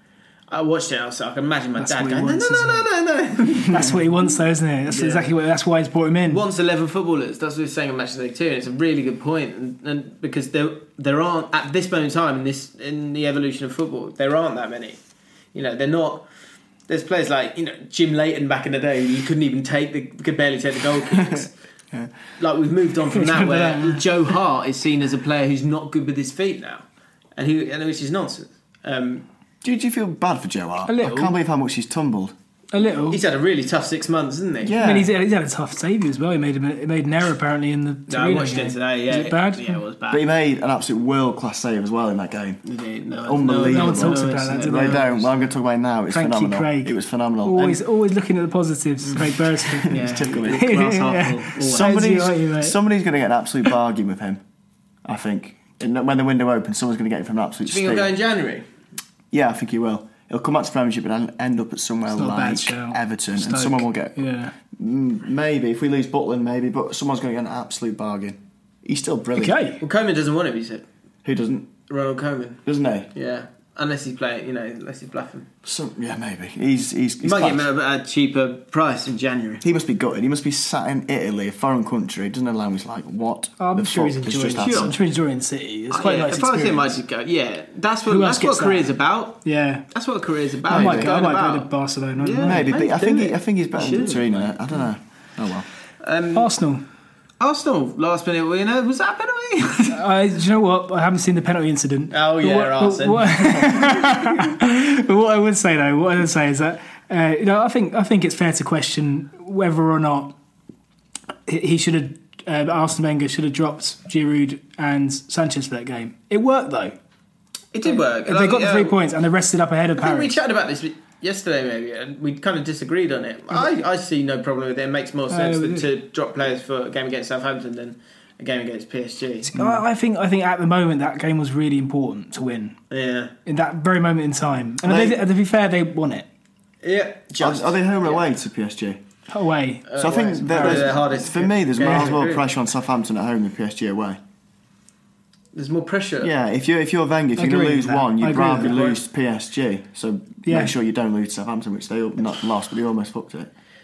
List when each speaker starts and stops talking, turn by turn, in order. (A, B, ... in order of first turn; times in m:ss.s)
0:00.5-0:03.9 A
0:01.8-0:02.8 B
0:03.6-0:06.4 B
0:04.9-0:05.2 A
0:06.3-0:15.0 A
0:15.5-0:16.3 A
0:16.9-0:21.5 A
0:21.1-0:22.1 C
0:22.4-0:26.8 A
0:23.2-0:24.0 B
0:27.4-0:29.2 A
0:29.6-0:32.3 C
0:30.9-0:31.3 B
0:32.7-0:33.2 B
0:33.1-0:34.8 A
0:34.6-0:35.1 C
0:34.7-0:39.8 B
0:38.1-0:40.2 A
0:40.1-0:42.6 C
0:42.6-0:45.1 A
0:43.2-0:47.8 C
0:43.6-0:45.1 B
0:46.1-0:46.9 B
0:47.4-0:52.8 B
0:49.8-0:51.9 A
0:49.9-0:50.9 C
0:51.6-0:54.4 C
0:55.0-0:58.1 C
0:57.7-0:58.6 A
0:59.3-1:09.6 C
1:02.1-1:04.5 B
1:09.4-1:09.8 B
1:09.8-1:10.8 A
1:11.2-1:11.7 C
1:11.9-1:15.5 A
1:12.6-1:13.1 C
1:15.6-1:17.6 C
1:17.2-1:19.6 A
1:19.6-1:25.0 C
1:23.6-1:26.9 B
1:24.6-1:25.0 A
1:25.9-1:34.7 A
1:28.1-1:28.9 B
1:29.4-1:29.8 B
1:30.7-1:31.1 C
1:30.7-1:32.7 B
1:32.4-1:35.7 C
1:36.0-1:36.5 A
1:36.3-1:36.8 B
1:37.4-1:40.0 A
1:39.9-1:50.4 B
1:42.1-1:43.9 A
1:51.5-1:56.9 B
1:57.7-1:59.0 A
1:57.9-2:00.4 B
2:00.0-2:09.5 A
2:05.3-2:05.8 B
2:09.5-2:12.8 B
2:09.5-2:09.8 C
2:12.9-2:13.3 A
2:13.4-2:16.2 B
2:14.8-2:15.1 C
2:16.8-2:18.3 A
2:17.4-2:19.0 C
2:19.3-2:21.0 B
2:19.9-2:22.4 A
2:20.0-2:24.2 C
2:25.5-2:26.3 A
2:26.2-2:33.5 C
2:27.4-2:28.8 B
2:28.6-2:29.0 A
2:30.4-2:30.7 B